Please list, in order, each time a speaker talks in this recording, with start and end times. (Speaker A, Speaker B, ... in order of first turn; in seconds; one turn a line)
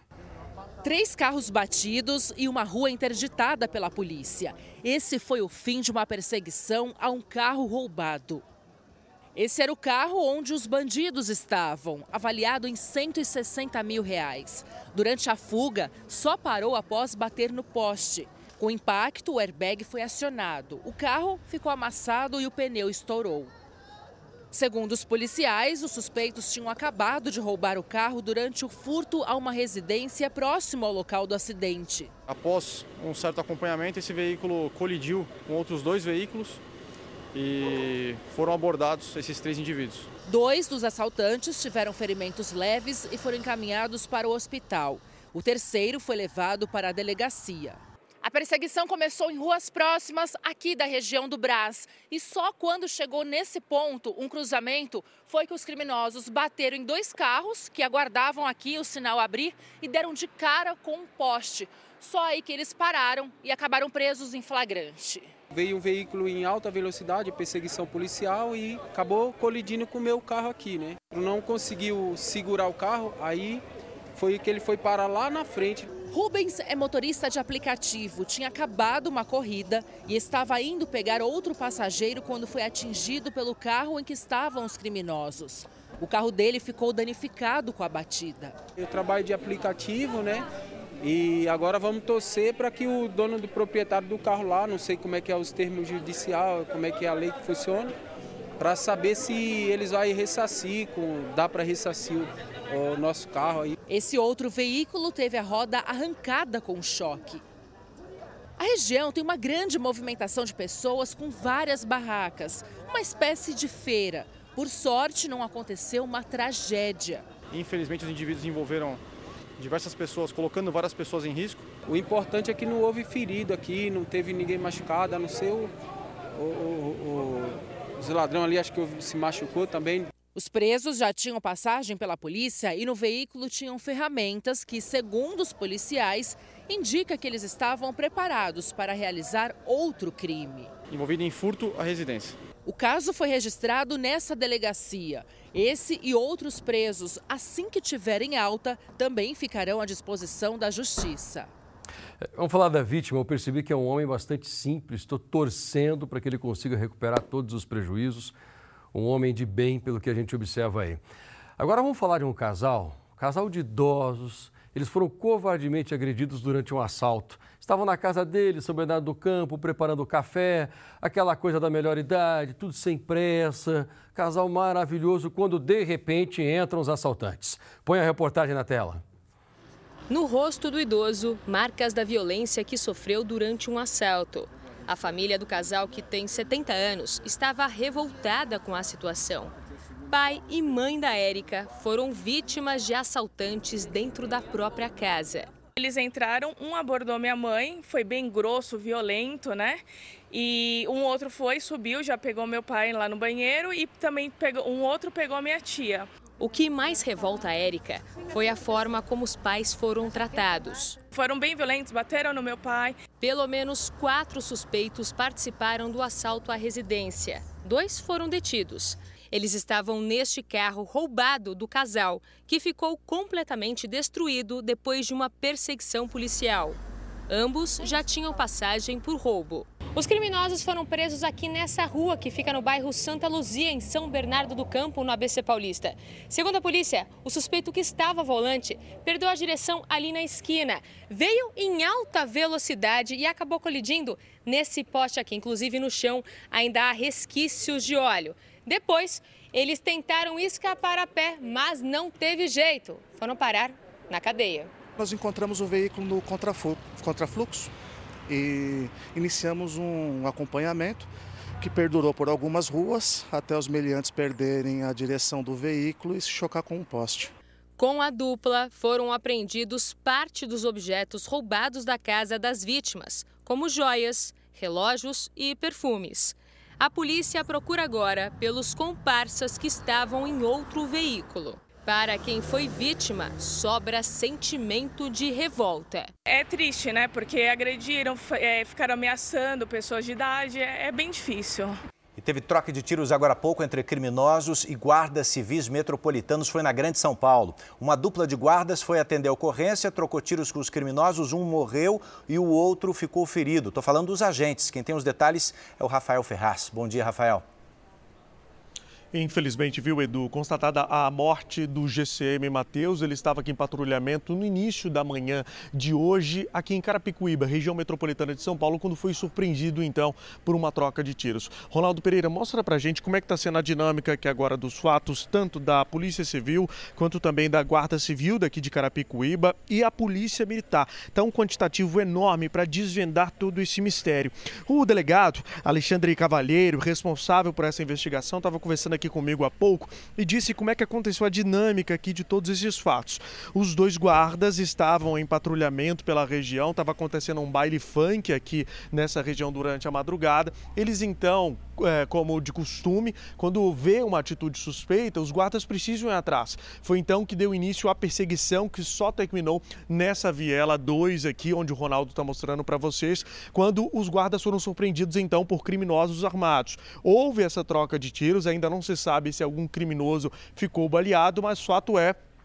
Speaker A: 0.8-8.4
Speaker A: 9.3-23.5
Speaker A: 24.5-32.1
Speaker B: 32.3-36.6
Speaker B: 37.3-40.1
Speaker A: 40.2-65.3
Speaker C: 65.5-73.6
Speaker D: 65.6-69.3
Speaker D: 70.0-73.6
Speaker C: 74.2-75.8
Speaker D: 74.2-75.8
Speaker A: 76.1-88.6
Speaker C: 88.8-90.4
Speaker D: 88.9-89.4
Speaker D: 90.1-90.4
Speaker C: 91.0-97.9
Speaker D: 92.8-93.3
Speaker C: 98.6-103.8
Speaker D: 99.6-100.3
Speaker A: 103.9-107.4
Speaker A: 108.6-117.2
Speaker B: 117.5-119.0
Speaker B: 119.6-121.7
Speaker C: 121.9-125.7
Speaker D: 123.4-125.7
Speaker D: 126.4-127.0
Speaker C: 126.5-130.1
Speaker D: 128.1-130.0
Speaker A: 130.3-140.7
Speaker B: 140.9-142.4
Speaker A: 142.7-151.5
Speaker E: 152.2-158.3
Speaker E: 158.9-161.0
Speaker E: 161.6-179.0
Speaker F: 180.1-189.5
Speaker F: 190.1-195.5
Speaker D: 195.8-206.1
Speaker F: 206.4-211.0
Speaker D: 211.1-213.0
Speaker F: 213.2-226.8
Speaker F: 227.3-254.7
Speaker G: 255.0-257.7
Speaker G: 258.3-261.1
Speaker G: 261.6-267.3
Speaker F: 267.8-286.1
Speaker D: 286.3-291.8
Speaker H: 292.2-307.4
Speaker I: 309.1-372.2